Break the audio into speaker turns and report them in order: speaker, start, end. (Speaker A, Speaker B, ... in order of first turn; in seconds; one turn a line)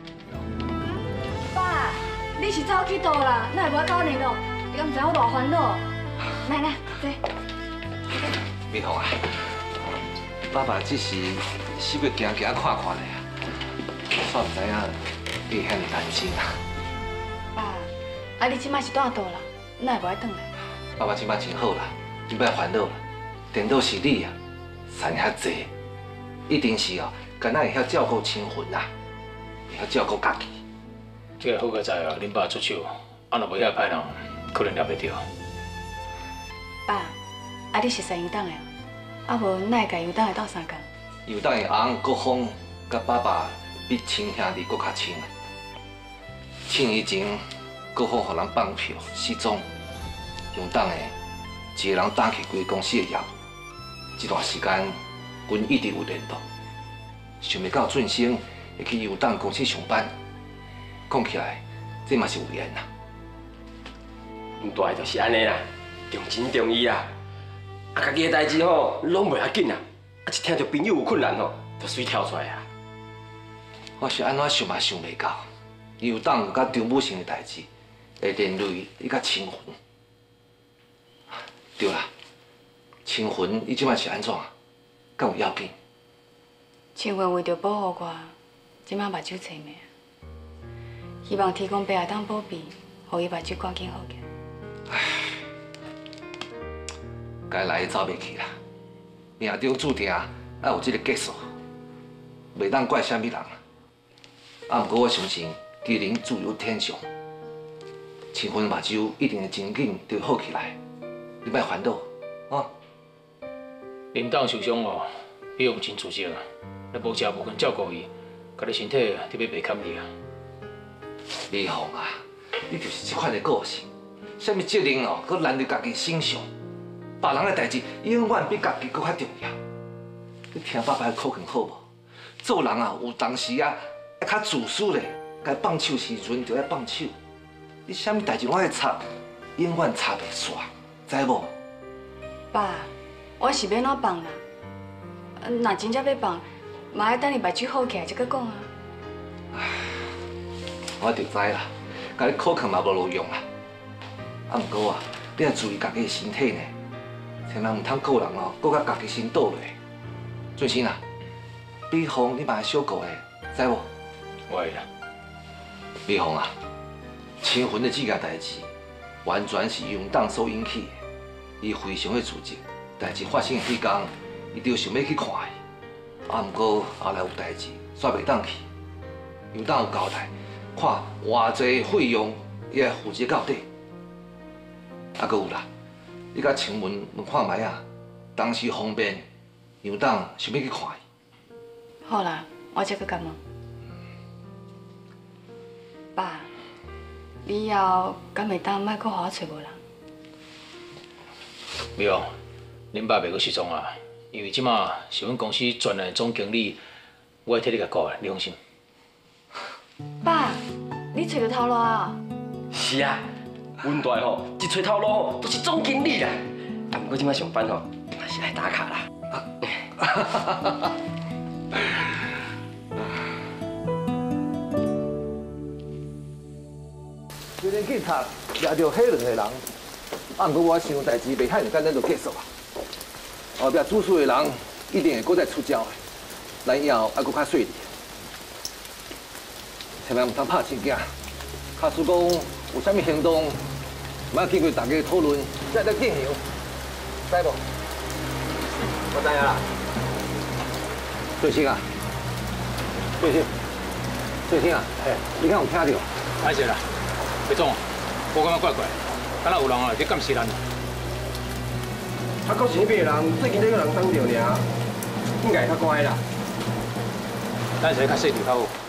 Speaker A: 1.5-5.8
Speaker A: 6.4-7.2
Speaker B: 8.7-9.4
Speaker B: 10.5-13.2
Speaker B: 14.1-16.5
Speaker A: 17.5-20.5
Speaker B: 21.0-23.0
Speaker B: 23.5-24.3
Speaker B: 24.9-25.7
Speaker B: 26.5-28.9
Speaker B: 29.7-30.6
Speaker C: 31.4-35.2
Speaker A: 36.9-37.1
Speaker A: 37.7-38.7
Speaker A: 39.3-40.8
Speaker B: 41.2-45.3
Speaker B: 46.7-47.4
Speaker B: 47.9-49.6
Speaker B: 50.5-51.1
Speaker B: 51.7-53.3
Speaker B: 54.2-56.4
Speaker B: 57.4-60.1
Speaker B: 61.1-62.9
Speaker D: 64.6-67.1
Speaker D: 67.9-72.7
Speaker B: 74.0-75.5
Speaker B: 76.0-77.7
Speaker B: 78.2-79.8
Speaker B: 81.8-82.1
Speaker B: 83.0-84.5
Speaker B: 85.2-85.7
Speaker A: 86.9-88.3
Speaker A: 88.8-89.8
Speaker A: 91.2-94.2
Speaker B: 97.5-98.5
Speaker B: 99.4-101.4
Speaker B: 102.5-103.6
Speaker B: 104.7-107.0
Speaker B: 108.3-110.8
Speaker B: 111.4-112.7
Speaker C: 114.1-120.1
Speaker B: 121.5-126.5
Speaker B: 127.2-129.6
Speaker B: 130.5-131.8
Speaker B: 132.4-137.1
Speaker B: 137.8-141.5
Speaker A: 142.5-144.4
Speaker A: 145.4-148.7
Speaker B: 149.5-149.9
Speaker B: 151.0-153.4
Speaker B: 154.5-156.7
Speaker B: 157.5-159.7
Speaker B: 160.6-161.0
Speaker B: 161.9-163.9
Speaker C: 164.5-164.8
Speaker B: 166.1-166.5
Speaker B: 167.4-168.7
Speaker B: 169.2-170.9
Speaker B: 171.6-175.6
Speaker B: 176.3-178.6
Speaker B: 179.5-183.7
Speaker B: 185.2-185.7
Speaker B: 186.3-187.8
Speaker B: 188.3-189.2
Speaker B: 189.8-191.0
Speaker A: 192.0-193.4
Speaker A: 196.1-196.5
Speaker A: 197.4-199.8
Speaker C: 201.9-202.3
Speaker C: 202.9-206.8
Speaker C: 207.4-208.6
Speaker A: 210.2-212.2
Speaker D: 212.7-213.2
Speaker D: 213.8-219.1
Speaker B: 220.0-220.7
Speaker B: 227.6-229.7
Speaker B: 230.3-232.5
Speaker B: 233.6-236.0
Speaker B: 236.6-237.9
Speaker B: 240.0-241.1
Speaker B: 241.8-243.6
Speaker B: 244.3-246.4
Speaker B: 247.3-247.6
Speaker D: 249.1-249.6
Speaker B: 251.4-251.8
Speaker B: 253.2-253.4
Speaker B: 254.5-256.1
Speaker C: 256.4-256.8
Speaker C: 257.5-257.8
Speaker C: 258.3-260.6
Speaker D: 262.4-264.6
Speaker D: 265.4-266.2
Speaker C: 267.8-268.7